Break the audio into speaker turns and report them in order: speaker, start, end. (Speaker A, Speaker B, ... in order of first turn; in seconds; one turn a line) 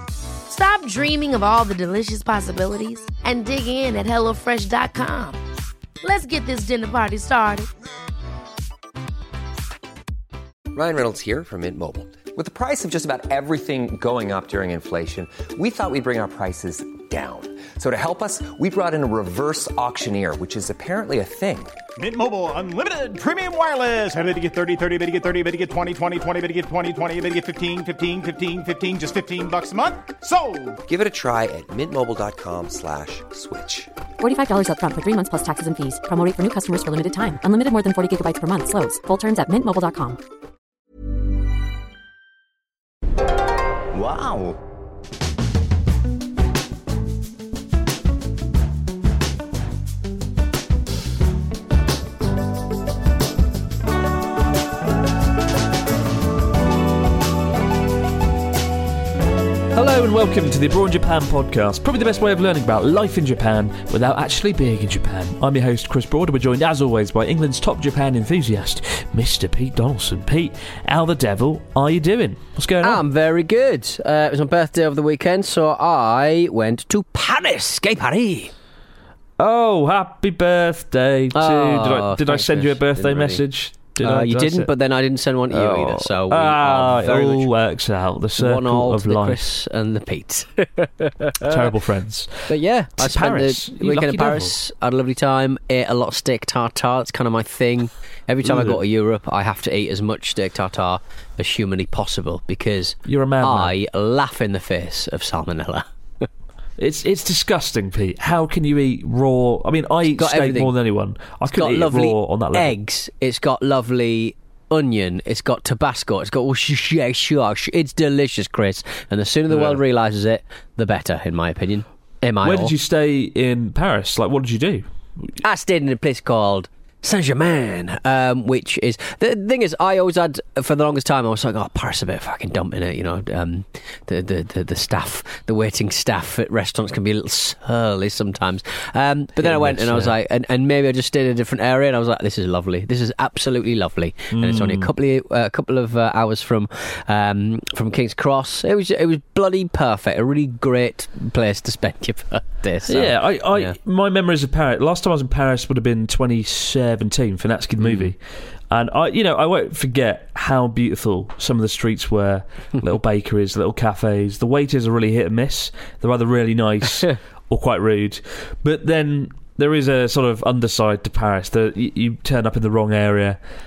Speaker A: 0.5-5.4
Speaker A: 6.0-7.7
Speaker B: 10.7-21.8
Speaker C: 22.0-30.8
Speaker B: 30.9-33.9
Speaker D: 34.2-40.2
Speaker E: 59.7-73.0
Speaker F: 72.8-78.5
Speaker E: 79.4-84.7
Speaker F: 81.3-83.4
Speaker F: 84.0-87.5
Speaker E: 85.5-89.4
Speaker F: 88.4-91.6
Speaker E: 91.5-94.5
Speaker F: 92.5-106.3
Speaker E: 98.4-98.8
Speaker E: 103.1-103.7
Speaker E: 106.8-112.7
Speaker F: 110.2-110.7
Speaker F: 111.5-122.7
Speaker E: 119.5-119.8
Speaker E: 122.4-125.3
Speaker F: 125.4-153.8
Speaker E: 139.4-140.2
Speaker E: 144.3-144.9
Speaker E: 152.9-158.2
Speaker F: 157.8-158.1
Speaker E: 158.7-173.4